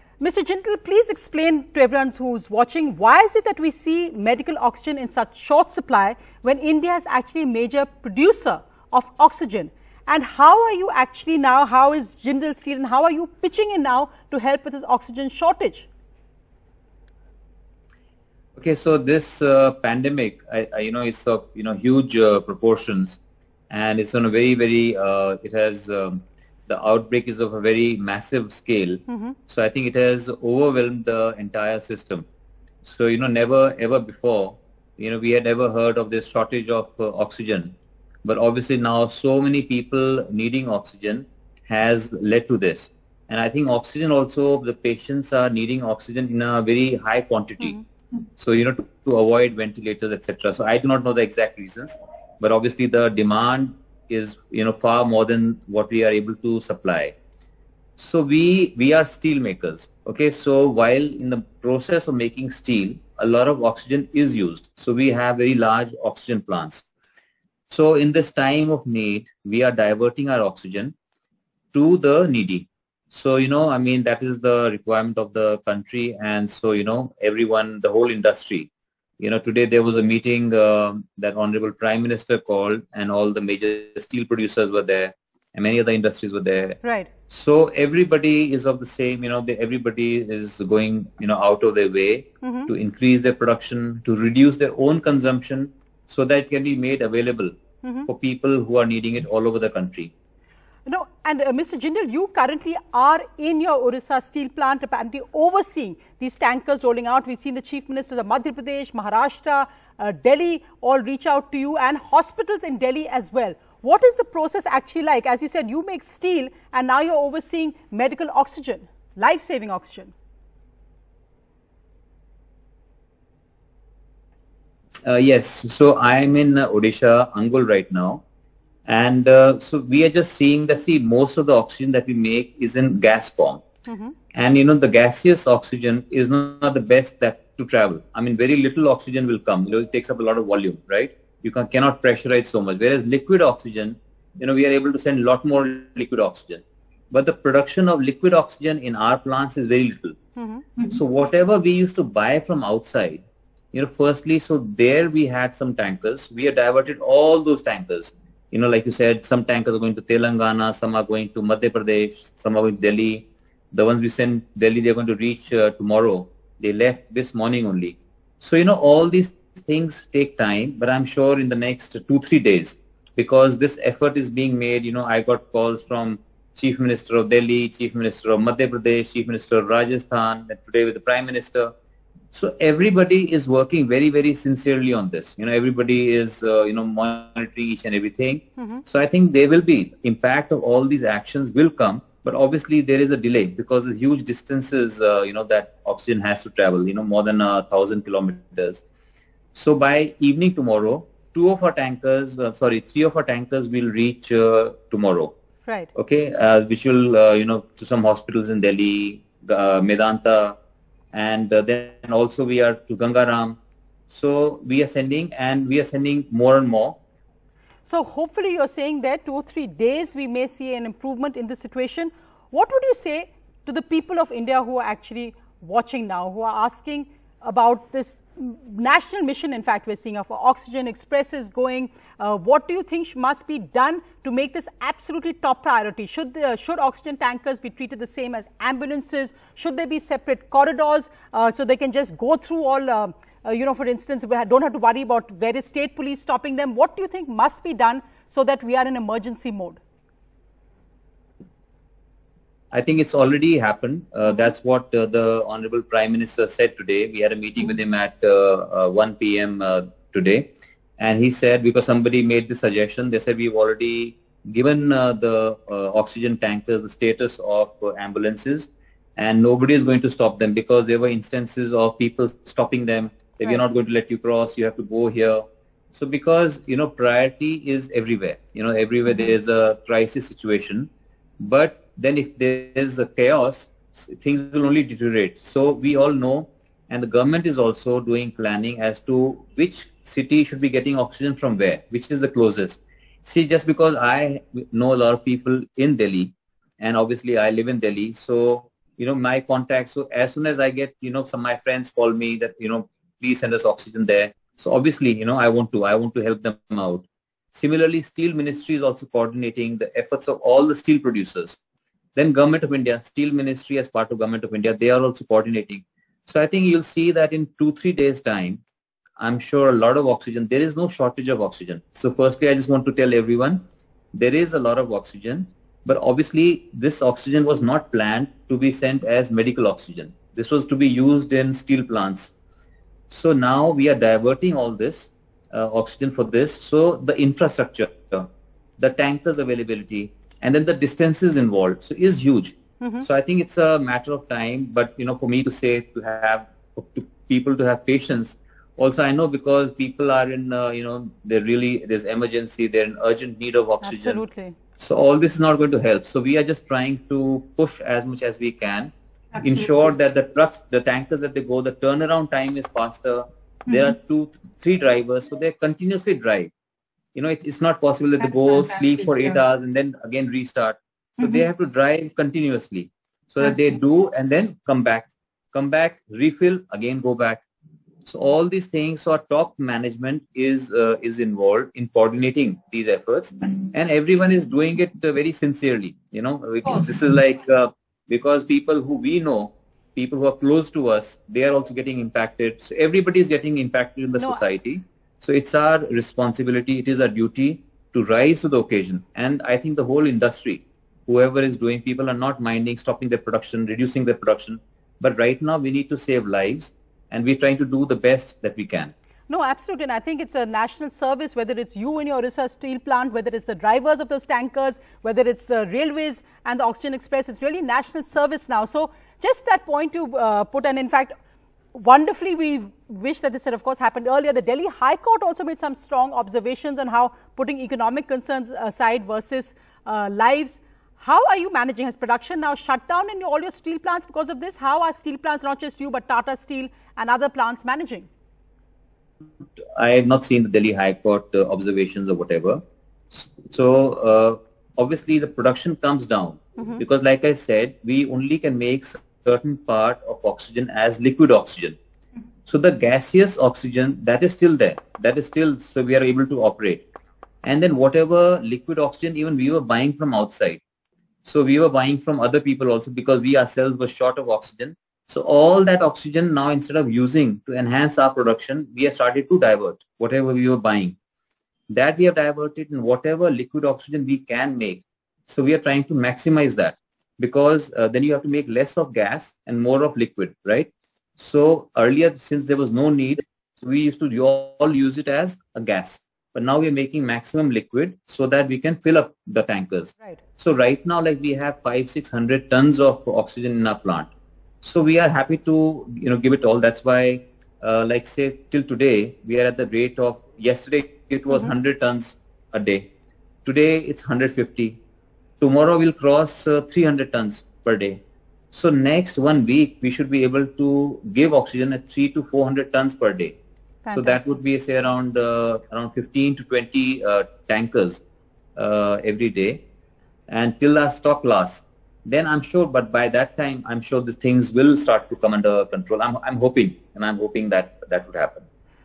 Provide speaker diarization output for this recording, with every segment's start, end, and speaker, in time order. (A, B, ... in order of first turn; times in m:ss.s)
0:00.2-0:15.9 A
0:18.6-0:23.2 B
0:23.7-0:32.2 B
0:29.1-0:29.4 A
0:32.8-0:47.8 B
0:48.4-0:57.1 B
0:58.0-1:06.8 B
1:07.7-1:10.9 B
1:11.7-1:37.5 B
1:26.8-1:27.1 A
1:32.4-1:32.7 A
1:38.1-1:40.1 B
1:40.8-2:00.1 A
2:05.0-2:08.2 B
2:08.9-2:13.6 B
2:13.9-2:14.1 A
2:14.3-2:30.2 B
2:30.4-2:30.6 A
2:30.8-3:01.7 B
3:02.3-3:18.8 B
3:19.5-3:25.3 B
3:25.9-3:30.6 B
3:31.1-3:33.6 B
3:34.1-3:37.0 B
3:37.8-4:09.8 A
4:12.7-4:40.9 B
4:41.4-5:11.6 B
5:12.2-5:18.6 B
5:19.2-5:23.6 B
5:24.1-5:32.3 B
5:33.1-5:54.2 B
5:53.8-5:54.6 A
5:54.8-6:06.5 B
6:07.1-6:17.4 B
6:18.0-6:48.9 B
6:34.1-6:34.4 A
6:49.3-7:01.1 A
7:01.7-7:18.1 A
7:19.6-7:31.8 B
7:32.4-7:36.8 B
7:37.4-7:40.6 B
7:41.2-7:51.0 B
7:51.7-8:14.1 B
8:14.6-8:22.9 B
8:23.4-8:24.8 B
8:25.4-8:28.0 B
8:28.5-8:33.4 B
8:33.8-8:34.2 A
8:33.9-8:38.0 B
8:38.6-8:39.6 B
8:40.3-8:48.4 B